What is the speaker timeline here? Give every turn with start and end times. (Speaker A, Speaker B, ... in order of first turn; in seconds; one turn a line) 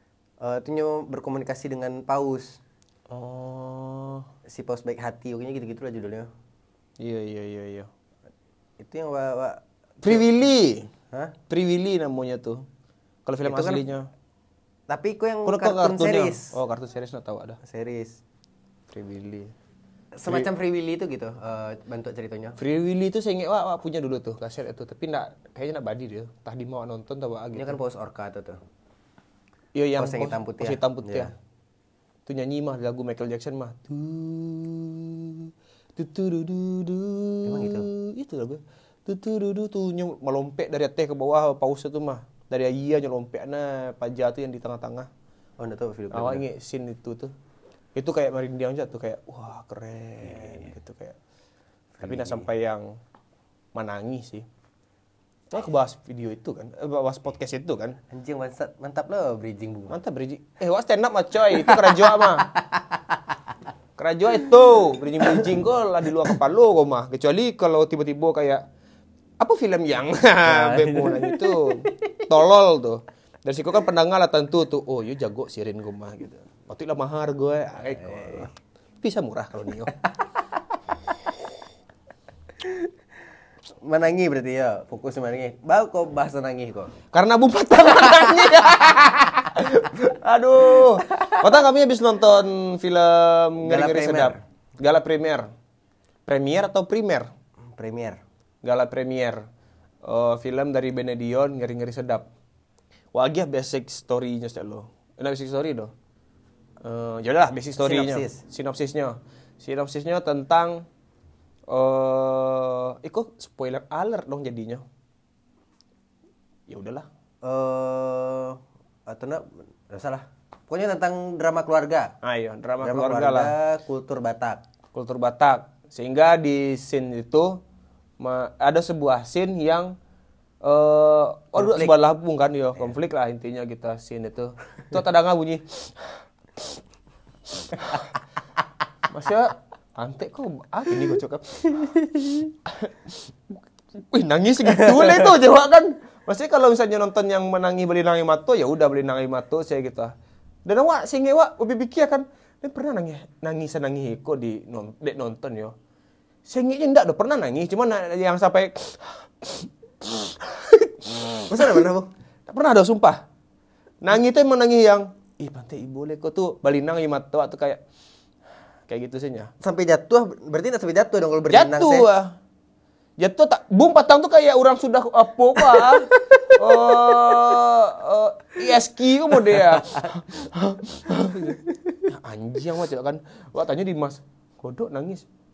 Speaker A: 0.4-2.6
Speaker B: 3.1-4.3
Speaker A: 4.5-6.3
Speaker B: 7.0-7.9
Speaker A: 8.8-10.3
Speaker B: 10.0-10.9
Speaker B: 11.5-12.7
Speaker B: 13.3-14.1
Speaker A: 13.4-13.8
Speaker A: 14.9-16.5
Speaker B: 15.4-17.6
Speaker A: 17.6-18.2
Speaker B: 18.9-19.5
Speaker A: 20.2-22.6
Speaker B: 22.6-27.8
Speaker A: 27.5-28.6
Speaker B: 29.7-31.3
Speaker A: 30.0-31.3
Speaker B: 32.3-45.1
Speaker A: 37.4-37.9
Speaker A: 45.6-46.4
Speaker B: 46.1-47.3
Speaker B: 48.0-51.2
Speaker A: 50.2-50.7
Speaker A: 52.0-52.5
Speaker B: 52.0-53.0
Speaker B: 53.7-54.5
Speaker B: 55.5-58.0
Speaker A: 58.1-60.0
Speaker B: 59.9-62.5
Speaker A: 61.5-63.2
Speaker B: 64.0-68.6
Speaker A: 65.2-65.5
Speaker B: 69.4-78.5
Speaker A: 70.5-72.3
Speaker A: 77.8-78.5
Speaker B: 79.0-79.9
Speaker A: 83.8-86.9
Speaker B: 87.1-95.5
Speaker A: 91.1-91.4
Speaker A: 93.6-94.4
Speaker B: 96.3-97.3
Speaker A: 97.8-98.2
Speaker B: 98.6-99.5
Speaker B: 100.0-102.3
Speaker B: 103.1-105.9
Speaker B: 106.8-110.9
Speaker A: 107.8-108.4
Speaker B: 111.7-114.8
Speaker B: 116.7-117.1
Speaker A: 117.4-122.1
Speaker B: 122.2-123.5
Speaker A: 122.8-124.6
Speaker B: 124.9-127.6
Speaker B: 128.2-129.9
Speaker B: 130.6-136.8
Speaker A: 131.6-131.9
Speaker B: 137.6-138.2
Speaker B: 139.1-150.1
Speaker A: 144.8-145.1
Speaker B: 150.7-155.8
Speaker B: 156.5-161.9
Speaker A: 161.5-162.1
Speaker B: 162.5-163.2
Speaker B: 164.0-167.8
Speaker B: 168.9-169.5
Speaker A: 169.6-172.1
Speaker B: 171.5-172.3
Speaker B: 173.2-185.3
Speaker A: 175.6-177.6
Speaker A: 179.5-180.1